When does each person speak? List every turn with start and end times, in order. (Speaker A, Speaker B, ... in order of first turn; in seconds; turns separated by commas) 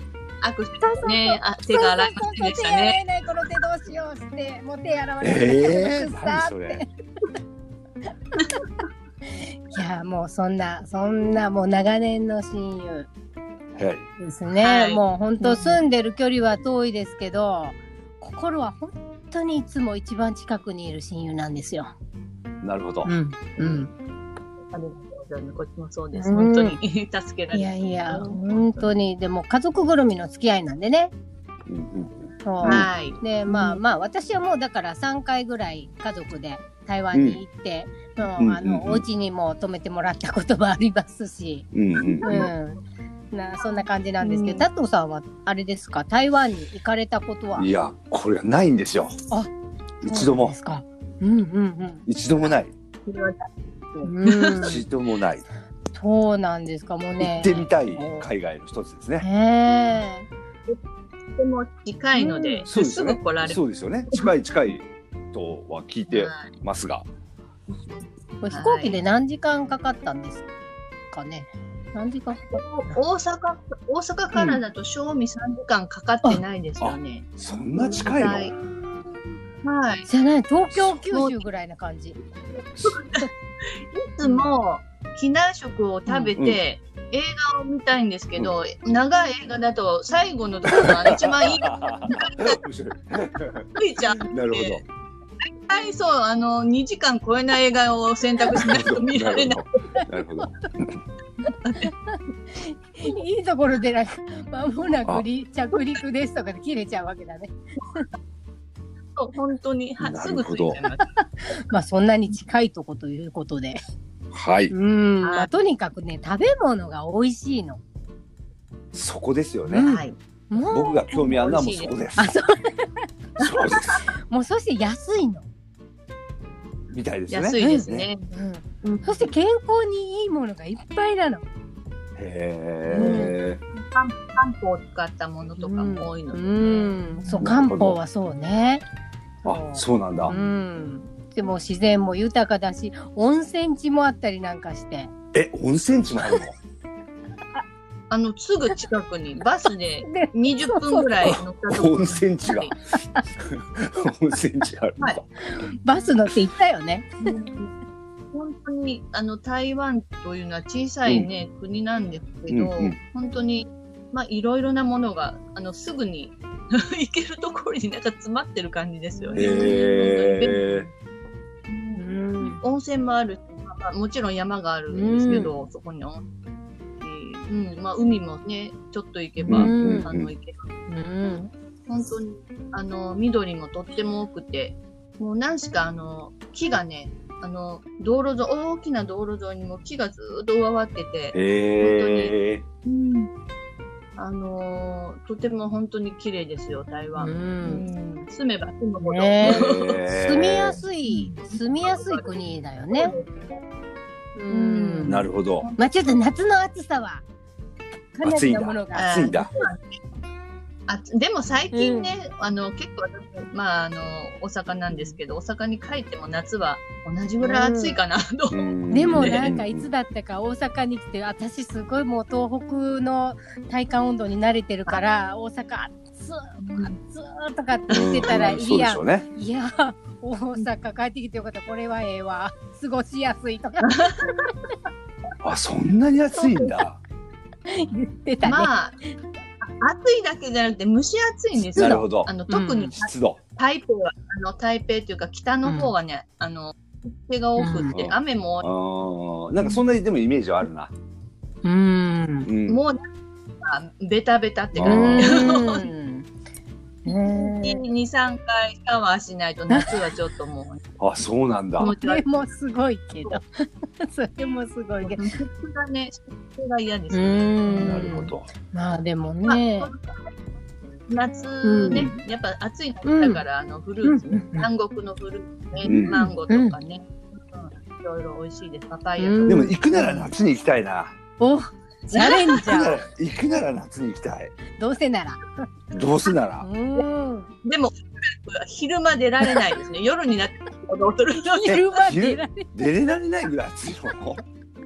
Speaker A: 0.4-3.0, Speaker B: 0.8-6.9, Speaker C: 5.2-6.8, Speaker B: 9.2-13.1, Speaker C: 13.8-14.1, Speaker B: 14.2-21.9, Speaker A: 14.6-15.8, Speaker C: 22.6-23.1, Speaker B: 23.1-23.9, Speaker A: 23.6-23.9, Speaker A: 24.7-28.9, Speaker B: 26.1-26.8, Speaker B: 27.5-31.1, Speaker C: 31.7-32.9, Speaker B: 32.4-41.7, Speaker A: 32.6-33.8, Speaker C: 37.1-37.4, Speaker C: 38.4-39.0, Speaker C: 41.7-42.5, Speaker A: 42.0-42.5, Speaker B: 42.2-42.8, Speaker B: 43.3-47.7, Speaker A: 43.7-44.7, Speaker C: 47.6-49.2, Speaker B: 50.0-52.1, Speaker C: 50.0-50.5, Speaker C: 52.1-52.7, Speaker A: 53.1-54.8, Speaker B: 54.0-54.8, Speaker C: 54.6-55.4, Speaker B: 55.9-58.3, Speaker C: 57.2-59.2, Speaker B: 59.2-60.3, Speaker A: 61.4-64.3, Speaker B: 62.2-62.6, Speaker C: 62.7-67.1, Speaker A: 66.1-66.5, Speaker B: 68.4-70.4, Speaker A: 68.5-69.0, Speaker B: 71.1-73.0, Speaker A: 72.5-78.6, Speaker C: 74.3-74.6, Speaker C: 76.8-78.5, Speaker B: 77.8-78.1, Speaker A: 79.6-80.1, Speaker B: 80.1-82.2, Speaker A: 81.1-81.4, Speaker A: 82.8-92.6, Speaker B: 84.2-84.5, Speaker B: 86.1-86.3, Speaker C: 90.7-93.7, Speaker A: 93.8-94.8, Speaker C: 94.2-94.8, Speaker A: 95.4-99.6, Speaker C: 98.5-101.0, Speaker B: 101.5-108.1, Speaker A: 101.6-101.9, Speaker A: 109.2-111.1, Speaker C: 110.0-110.8, Speaker B: 111.2-113.8, Speaker C: 114.3-114.7, Speaker B: 114.7-117.8, Speaker A: 115.2-115.5, Speaker C: 118.9-119.9, Speaker B: 119.7-121.1, Speaker A: 119.8-120.2, Speaker C: 120.7-122.3, Speaker A: 121.1-122.0, Speaker B: 122.2-123.1, Speaker C: 123.4-124.0, Speaker A: 123.4-124.0, Speaker B: 124.3-125.5, Speaker C: 126.9-128.1, Speaker A: 127.3-128.3, Speaker B: 127.6-131.4, Speaker A: 128.8-129.3, Speaker C: 132.2-133.6, Speaker A: 132.9-137.4, Speaker B: 132.9-133.3, Speaker B: 135.6-138.8, Speaker C: 137.4-138.0, Speaker C: 139.4-140.3, Speaker B: 139.4-145.1, Speaker C: 145.3-146.5, Speaker A: 148.1-152.7, Speaker B: 150.1-151.1, Speaker C: 151.2-152.7, Speaker B: 152.9-153.2, Speaker C: 153.4-155.3, Speaker B: 155.5-157.3, Speaker A: 157.2-157.7, Speaker A: 158.3-170.9, Speaker C: 162.5-162.9, Speaker B: 169.2-170.0, Speaker C: 169.3-170.9, Speaker A: 171.7-176.2, Speaker B: 171.9-172.6, Speaker B: 174.9-175.6, Speaker A: 177.0-180.6, Speaker B: 179.4-180.1, Speaker C: 179.5-180.3, Speaker B: 180.9-181.5, Speaker A: 181.9-193.3, Speaker C: 191.3-192.6, Speaker A: 194.2-200.0, Speaker B: 197.2-197.8, Speaker B: 199.0-203.2, Speaker C: 199.4-200.8, Speaker A: 201.1-202.4, Speaker A: 202.9-203.6, Speaker B: 204.3-205.2, Speaker A: 204.5-205.9, Speaker C: 205.1-205.7, Speaker B: 205.8-207.2, Speaker B: 208.1-209.6, Speaker C: 208.2-209.5, Speaker A: 208.5-210.0, Speaker A: 210.9-219.4, Speaker B: 211.7-212.1, Speaker B: 214.9-215.2, Speaker B: 217.4-218.0, Speaker C: 218.5-219.9, Speaker B: 218.9-234.6, Speaker A: 226.6-226.9, Speaker A: 227.9-228.3, Speaker C: 227.9-229.2, Speaker A: 233.8-234.5, Speaker C: 235.4-237.0, Speaker B: 236.4-236.8, Speaker B: 237.7-239.1, Speaker A: 238.4-239.0, Speaker A: 239.6-248.7, Speaker C: 241.8-242.3, Speaker B: 241.8-242.9, Speaker C: 243.0-243.4, Speaker B: 245.6-245.9, Speaker B: 247.6-247.9, Speaker C: 247.9-250.9, Speaker B: 251.6-252.5, Speaker C: 252.4-252.8, Speaker A: 252.7-253.0, Speaker A: 253.6-255.9, Speaker C: 254.7-255.6, Speaker B: 254.8-256.3, Speaker B: 257.1-257.8, Speaker A: 257.3-260.8, Speaker B: 259.7-260.1, Speaker C: 261.0-261.9, Speaker A: 261.8-262.4, Speaker B: 261.8-265.4, Speaker A: 265.0-268.2, Speaker B: 267.1-269.9, Speaker C: 267.7-268.5, Speaker A: 269.4-270.3, Speaker A: 271.1-279.7, Speaker B: 271.6-272.2, Speaker B: 273.0-273.4, Speaker B: 274.0-274.7, Speaker B: 275.8-276.8, Speaker C: 275.9-276.1, Speaker B: 279.2-280.3, Speaker C: 279.5-281.1, Speaker B: 281.4-283.0, Speaker A: 282.1-282.7, Speaker C: 282.7-284.5, Speaker B: 284.8-285.6, Speaker C: 285.9-286.6, Speaker B: 286.6-287.5, Speaker A: 287.6-291.9, Speaker B: 291.5-292.7, Speaker C: 292.0-294.4